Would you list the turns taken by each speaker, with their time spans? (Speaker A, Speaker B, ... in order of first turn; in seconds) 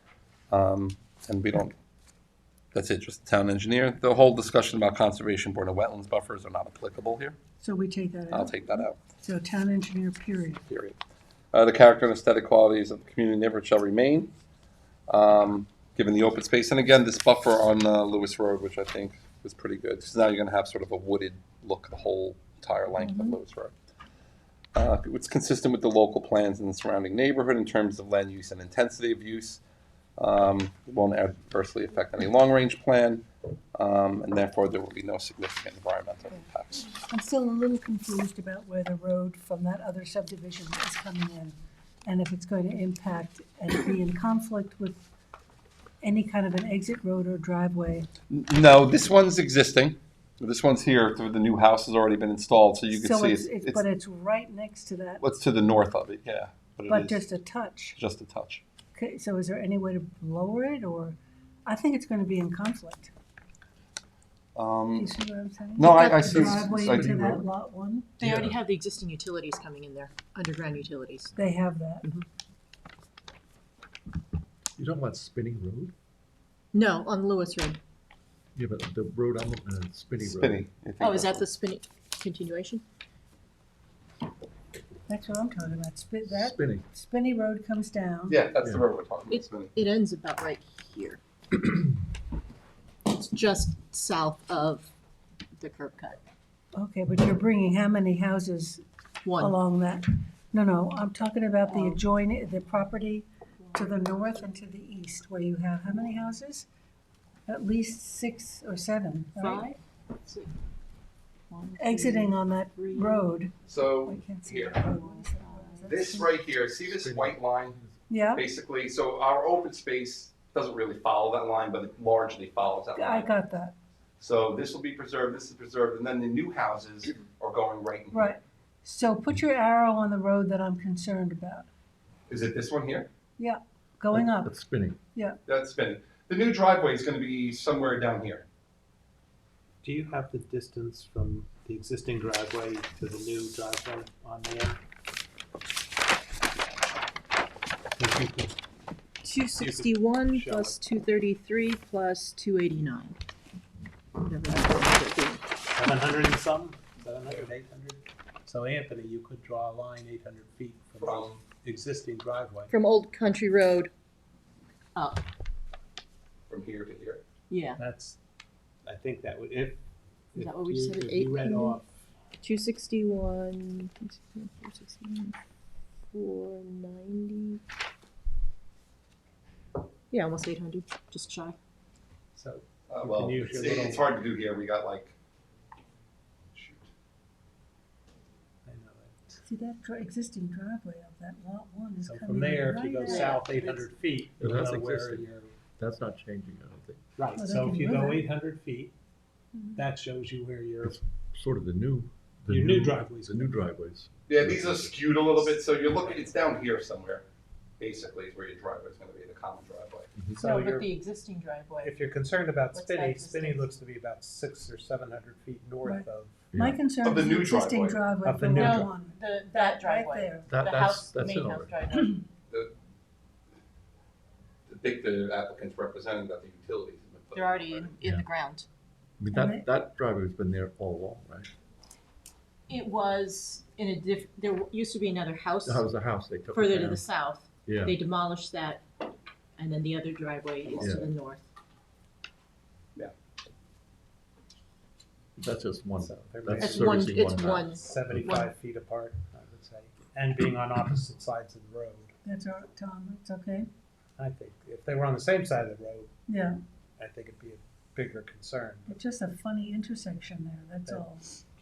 Speaker A: 0.5-1.7, 2.7-7.3, 8.3-9.0, 10.7-11.0, 11.5-14.3, 15.1-23.7, 24.7-29.6, 30.2-36.9, 48.3-53.8, 55.2-57.2, 58.0-58.6, 64.5-65.1, 65.8-67.4, 80.2-81.5, 88.3-89.7, 113.7-114.8, 115.9-117.8, 118.3-123.3, 124.2-128.3, 132.3-133.1, 135.4-138.4, 161.0-161.4, 166.5-167.2, 182.9-185.1, 186.5-186.9, 204.3-207.2, 207.8-210.1, 217.0-218.1, 224.7-227.9, 240.7-241.0
Speaker B: 7.6-10.7, 36.3-45.1, 46.0-48.1, 52.9-55.2, 56.9-58.0, 58.9-63.1, 64.9-68.1, 71.4-72.1, 85.1-88.4, 96.7-98.8, 99.4-106.7, 107.5-109.7, 111.8-116.3, 118.1-118.4, 122.9-123.7, 128.1-131.7, 133.4-134.5, 189.4-193.4, 197.3-198.2, 199.5-199.8, 215.8-220.5, 229.3-229.7, 252.2-253.7, 256.3-256.6, 258.9-261.3
Speaker C: 22.9-23.4, 65.9-66.6, 68.2-71.3, 76.7-77.8, 81.0-82.8, 89.3-91.2, 93.0-94.9, 95.6-96.2, 99.2-99.6, 101.7-102.0, 103.6-104.5, 109.4-110.5, 111.5-113.3, 114.8-116.0, 149.2-153.2, 154.2-155.5, 162.7-163.9, 164.9-165.2, 167.5-167.8, 170.3-171.8, 172.4-175.3, 176.1-177.6, 180.1-181.6, 193.0-193.9, 210.3-212.0, 212.7-213.7, 218.5-222.3, 227.3-228.7, 232.7-235.9, 236.5-238.8, 239.6-241.4, 246.6-248.5
Speaker D: 68.2-68.6, 74.8-75.9, 78.5-80.6, 86.2-86.8, 116.8-118.0, 134.1-135.0, 194.4-197.0, 200.8-205.3, 210.2-210.4, 216.5-216.8, 220.5-221.7, 229.2-231.5, 235.6-237.1, 237.7-238.0, 240.8-241.1, 245.4-248.4
Speaker E: 139.8-144.8, 147.9-148.6, 149.6-150.7, 155.7-162.7, 167.8-168.2, 168.8-169.8, 170.3-171.9, 182.3-184.1, 188.6-189.4, 192.0-195.5, 197.2-198.9, 199.7-200.9, 202.5-203.6, 210.4-210.9, 211.8-216.5, 218.2-218.9, 246.0-247.1, 247.8-252.1, 254.2-256.1, 257.0-259.0